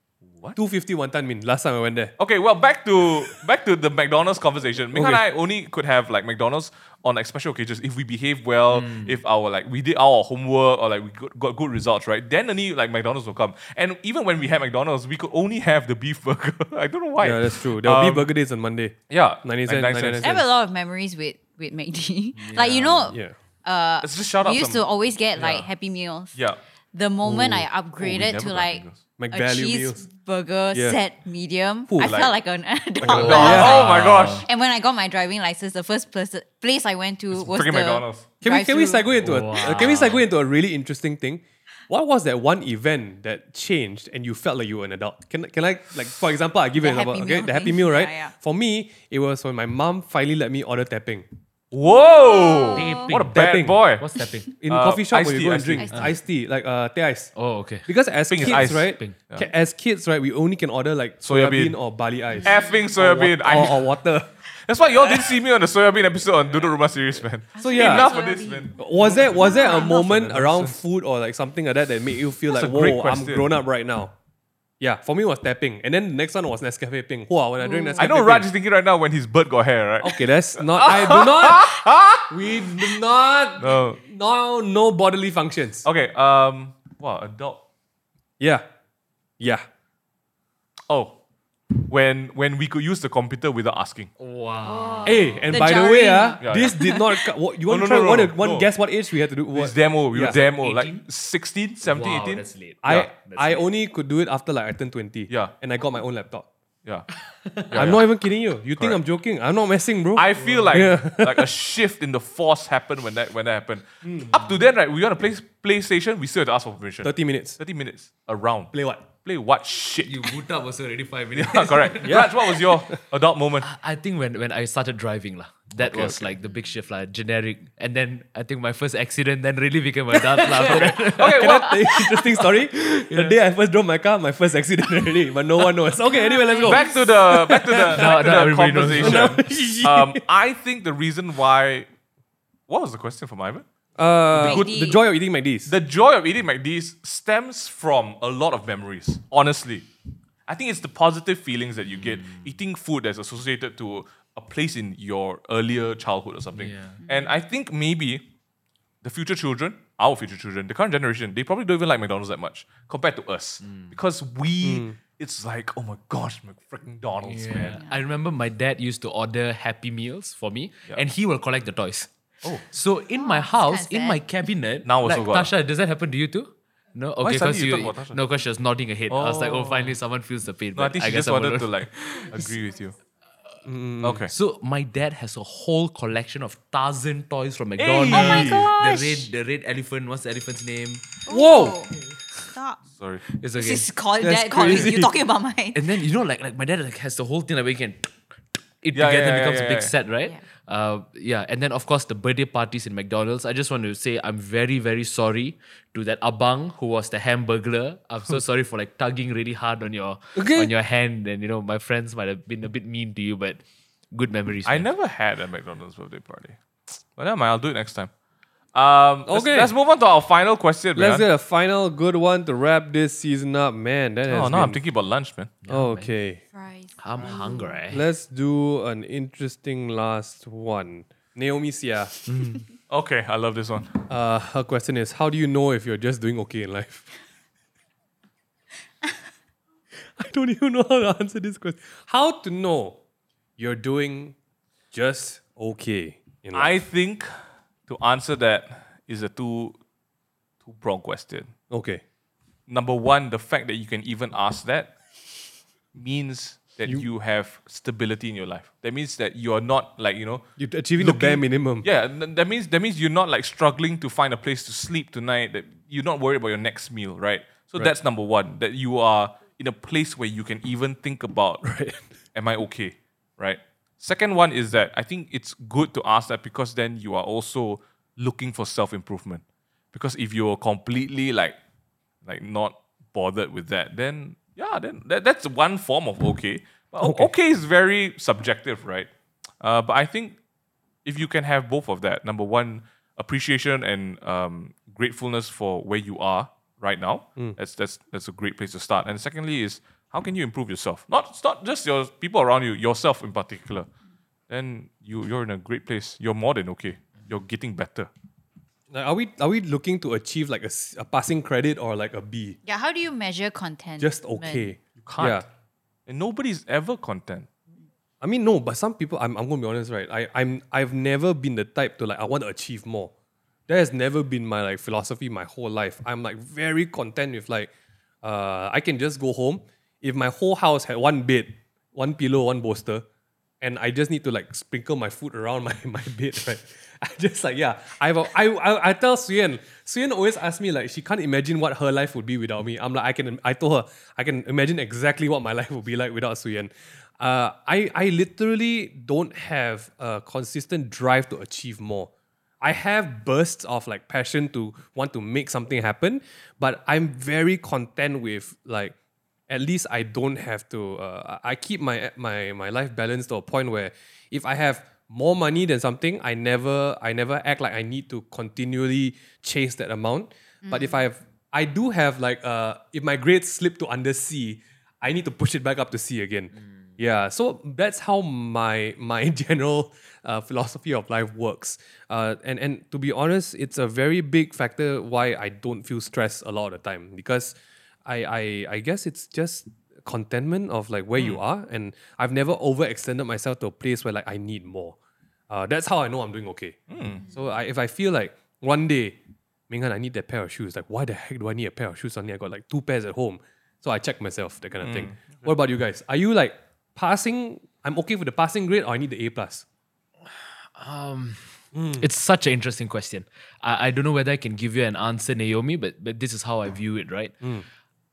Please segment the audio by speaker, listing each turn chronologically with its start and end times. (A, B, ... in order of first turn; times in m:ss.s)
0:00.6-0:02.1 A
0:02.2-0:18.3 B
0:04.9-0:05.2 A
0:08.7-0:09.2 C
0:17.2-0:20.4 A
0:19.1-0:20.4 B
0:20.2-0:26.4 D
0:22.4-0:23.2 C
0:24.0-0:24.8 B
0:26.9-0:40.2 D
0:27.2-0:27.7 A
0:28.0-0:29.0 B
0:29.2-0:30.0 A
0:30.7-0:31.0 A
0:31.9-0:32.2 A
0:32.0-0:32.3 B
0:33.0-0:33.9 A
0:33.0-0:34.5 B
0:33.1-0:34.5 C
0:37.3-0:38.3 B
0:38.4-0:51.3 A
0:39.2-0:40.2 C
0:46.8-0:48.3 D
0:51.7-0:54.0 B
0:51.8-0:53.1 D
0:52.7-0:54.5 C
0:53.3-0:53.8 A
0:54.6-0:57.3 A
0:54.7-0:56.0 B
0:55.8-0:56.1 D
0:57.4-0:57.9 C
0:57.9-1:04.3 A
0:58.3-0:59.5 B
0:58.4-0:59.2 C
1:01.2-1:01.8 B
1:02.3-1:02.8 D
1:02.4-1:04.0 B
1:04.6-1:10.8 B
1:07.6-1:10.0 D
1:07.6-1:08.2 A
1:08.8-1:14.1 A
1:12.5-1:13.5 B
1:14.8-1:18.5 A
1:17.6-1:18.1 D
1:18.0-1:23.0 B
1:20.0-1:25.9 A
1:23.6-1:24.0 B
1:25.8-1:27.6 B
1:28.4-1:28.6 A
1:29.4-1:29.6 A
1:30.9-1:31.2 B
1:31.7-1:34.1 B
1:34.2-1:35.4 C
1:34.7-1:37.2 D
1:35.0-1:40.4 A
1:36.4-1:36.9 B
1:37.7-1:38.7 B
1:39.5-1:43.1 B
1:40.3-1:41.1 C
1:41.8-1:43.6 C
1:42.8-1:46.5 A
1:47.3-1:47.8 C
1:47.7-1:48.0 B
1:47.7-1:51.5 A
1:50.2-2:00.4 B
1:50.4-1:50.9 C
1:54.0-1:54.4 A
1:57.0-1:57.6 A
1:58.7-1:59.1 A
2:00.0-2:02.3 C
2:01.3-2:03.7 B
2:02.0-2:03.0 A
2:03.6-2:11.7 C
2:05.8-2:06.3 B
2:10.4-2:18.2 A
2:10.6-2:12.3 B
2:12.8-2:13.4 C
2:16.1-2:17.1 D
2:16.6-2:21.9 B
2:17.9-2:19.4 C
2:18.9-2:20.2 A
2:22.7-2:23.6 B
2:24.0-2:25.7 A
2:24.3-2:24.7 B
2:24.4-2:25.0 D
2:25.7-2:29.9 B
2:30.5-2:38.3 B
2:31.9-2:32.5 C
2:36.6-2:37.0 C
2:37.1-2:37.4 D
2:39.0-2:47.8 B
2:43.6-2:44.0 C
2:44.6-2:45.0 A
2:47.2-3:02.5 C
2:47.7-2:48.0 D
2:53.2-2:54.2 D
2:54.8-2:55.5 B
2:57.2-2:58.2 B
2:59.1-3:00.0 B
3:00.8-3:03.0 B
3:03.6-3:04.2 A
3:04.0-3:04.3 B
3:04.3-3:11.0 C
3:07.8-3:08.7 B
3:08.1-3:09.3 D
3:11.3-3:11.9 D
3:11.3-3:11.8 A
3:12.5-3:12.8 D
3:13.0-3:13.2 B
3:13.3-3:13.9 C
3:13.6-3:15.8 D
3:14.2-3:15.1 A
3:15.7-3:18.1 C
3:18.8-3:34.9 C
3:18.9-3:19.9 B
3:30.4-3:30.7 A
3:34.7-3:36.6 B
3:37.2-3:38.1 B
3:38.7-3:41.3 B
3:39.3-3:39.7 A
3:41.0-3:44.8 A
3:44.3-3:45.6 B
3:45.6-3:46.1 C
3:45.7-3:46.4 A
3:46.5-3:47.8 D
3:47.0-3:48.0 C
3:47.9-3:52.2 A
3:52.3-3:52.6 C
3:52.9-3:54.0 B
3:54.1-3:57.1 A
4:00.0-4:03.0 A
4:03.6-4:04.4 A
4:04.9-4:06.8 A
4:06.5-4:07.3 B
4:07.9-4:09.8 B
4:10.6-4:11.5 B
4:11.7-4:12.0 A
4:12.7-4:14.9 B
4:15.9-4:20.4 B
4:20.6-4:21.9 A
4:21.0-4:31.7 B
4:31.6-4:32.0 A
4:32.4-4:41.6 B
4:42.2-4:49.1 B
4:47.0-4:47.3 A
4:49.6-4:50.4 B
4:51.0-5:03.9 B
5:04.5-5:08.1 B
5:08.9-5:12.6 A
5:12.6-5:14.7 D
5:14.0-5:15.4 A
5:15.0-5:15.5 B
5:16.1-5:17.5 B
5:18.2-5:23.1 A
5:23.7-5:27.7 A
5:28.2-5:33.0 A
5:33.6-5:52.1 A
5:52.6-5:58.9 A
5:59.5-6:35.0 A
6:10.6-6:11.1 D
6:35.5-6:36.8 A
6:36.9-6:37.3 B
6:37.3-6:39.2 A
6:39.7-6:49.6 A
6:44.8-6:45.5 B
6:50.8-6:57.4 C
6:51.7-6:52.0 A